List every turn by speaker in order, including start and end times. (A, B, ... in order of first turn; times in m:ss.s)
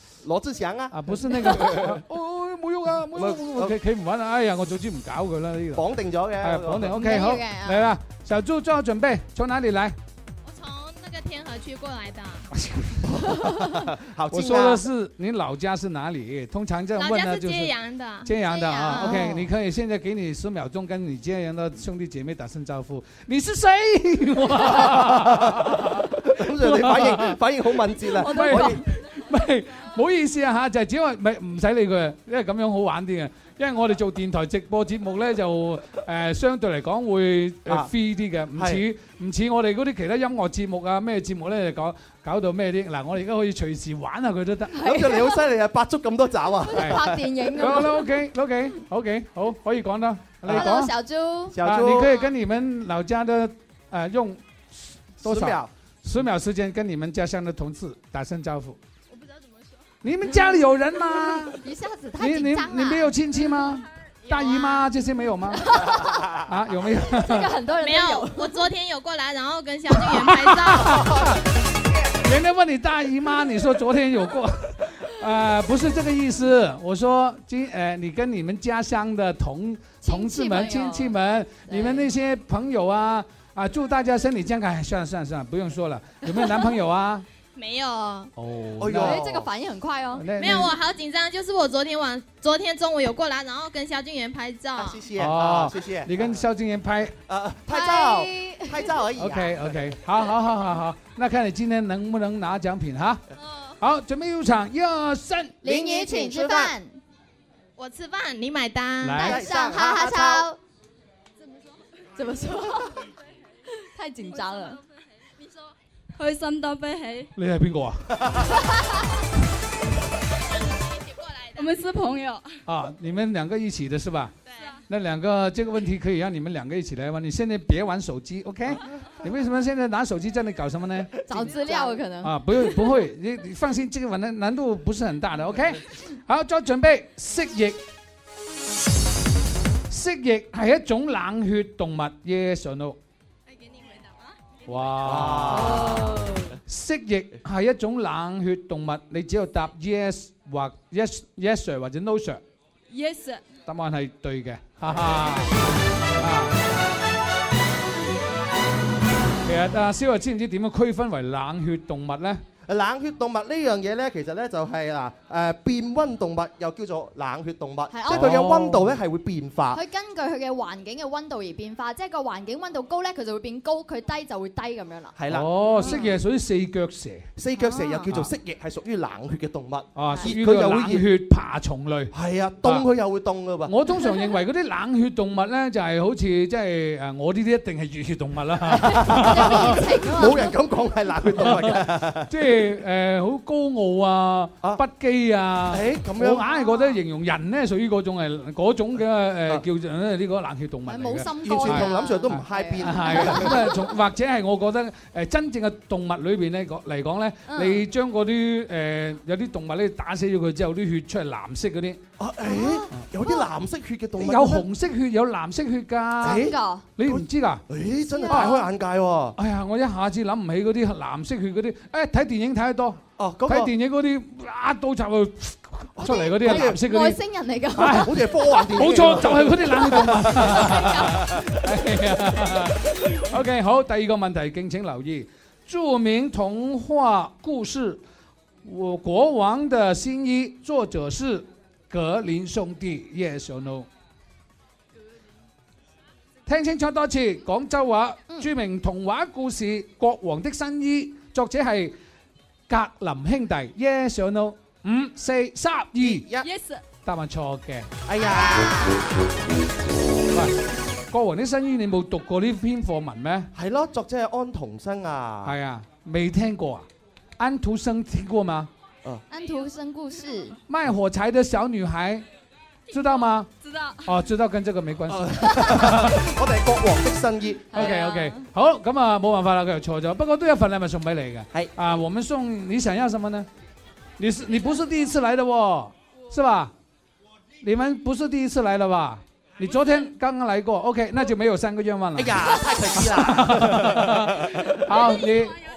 0:00.2-0:02.0 A
0:00.9-0:05.8 B
0:03.2-0:03.8 A
0:05.8-0:07.1 A
0:06.4-0:10.0 B
0:06.9-0:07.9 C
0:10.4-0:12.5 D
0:12.5-0:13.3 B
0:13.1-0:14.8 A
0:14.3-0:27.4 B
0:17.0-0:19.2 D
0:18.8-0:19.4 C
0:19.0-0:19.4 A
0:24.8-0:28.8 A
0:28.1-0:44.8 B
0:38.6-0:38.8 A
0:44.8-0:45.4 C
0:44.8-0:47.2 A
0:46.7-0:48.1 C
0:46.8-0:50.9 B
0:50.4-0:50.7 A
0:50.5-0:51.6 C
0:51.5-0:52.1 A
0:51.6-0:58.8 B
0:55.2-0:55.7 A
1:00.0-1:01.6 B
1:01.6-1:03.2 C
1:02.2-1:07.5 B
1:05.6-1:06.2 C
1:07.1-1:08.6 C
1:07.8-1:11.2 D
1:09.9-1:11.4 B
1:12.2-1:27.3 B
1:20.0-1:22.1 C
1:27.6-1:28.3 D
1:28.4-1:29.2 B
1:28.8-1:29.5 A
1:28.9-1:30.3 C
1:30.2-1:30.8 B
1:30.4-1:35.0 D
1:34.8-1:36.4 A
1:35.2-1:37.2 B
1:37.3-1:39.8 A
1:37.7-1:38.9 C
1:39.2-1:43.2 B
1:43.8-1:46.6 B
1:45.6-1:47.0 C
1:45.8-1:46.7 A
1:47.8-1:49.3 D
1:49.0-1:49.4 B
1:49.2-1:50.6 C
1:49.2-1:50.5 A
1:52.2-1:53.0 C
1:54.0-1:54.8 C
1:54.4-1:54.8 E
1:56.2-1:57.3 E
1:57.4-1:58.1 B
2:00.6-2:01.6 D
2:01.6-2:02.4 E
2:02.7-2:04.3 B
2:04.5-2:04.7 D
2:04.9-2:11.6 B
2:11.3-2:12.6 C
2:12.2-2:17.8 B
2:19.9-2:23.0 B
2:24.7-2:25.9 B
2:25.0-2:26.2 A
2:25.5-2:25.9 C
2:26.6-2:32.4 B
2:32.9-2:33.4 E
2:33.7-2:35.5 B
2:36.2-2:36.6 B
2:39.4-2:42.4 B
2:42.7-2:49.8 A
2:47.9-2:48.4 C
2:48.1-2:49.0 B
2:49.7-2:55.2 C
2:55.2-2:56.1 A
2:55.3-2:57.3 B
2:55.8-2:56.1 C
2:57.4-3:01.1 A
2:57.6-2:58.1 C
3:00.0-3:02.9 B
3:02.1-3:03.7 A
3:03.7-3:09.9 B
3:04.0-3:04.4 C
3:08.7-3:12.3 A
3:08.9-3:10.5 C
3:11.4-3:32.0 B
3:15.7-3:16.4 A
3:16.5-3:17.0 C
3:20.9-3:23.9 C
3:21.4-3:23.6 A
3:27.5-3:27.8 C
3:32.2-3:34.6 A
3:32.4-3:33.4 C
3:34.2-3:36.4 B
3:36.2-3:39.4 A
3:36.2-3:36.8 C
3:37.0-3:37.6 B
3:38.1-3:38.7 C
3:38.3-3:38.6 B
3:39.4-3:47.2 B
3:43.2-3:43.7 A
3:46.0-3:46.8 A
3:46.3-3:48.7 C
3:47.8-3:58.0 B
3:48.0-3:50.6 A
3:49.8-3:51.4 C
3:58.6-4:03.9 B
4:06.5-4:12.0 B
4:12.7-4:16.3 B
4:16.0-4:16.5 A
4:17.0-4:17.9 B
4:18.1-4:19.0 A
4:18.2-4:19.2 C
4:20.3-4:20.6 B
4:21.1-4:23.5 B
4:23.5-4:25.5 A
4:25.4-4:26.9 B
4:27.4-4:28.7 B
4:29.3-4:30.6 C
4:30.7-4:32.3 B
4:32.9-4:33.5 B
4:34.0-4:36.2 B
4:35.1-4:37.9 A
4:37.7-4:38.1 C
4:37.7-4:43.5 B
4:44.2-4:46.7 B
4:47.6-4:55.6 B
4:52.2-4:54.7 A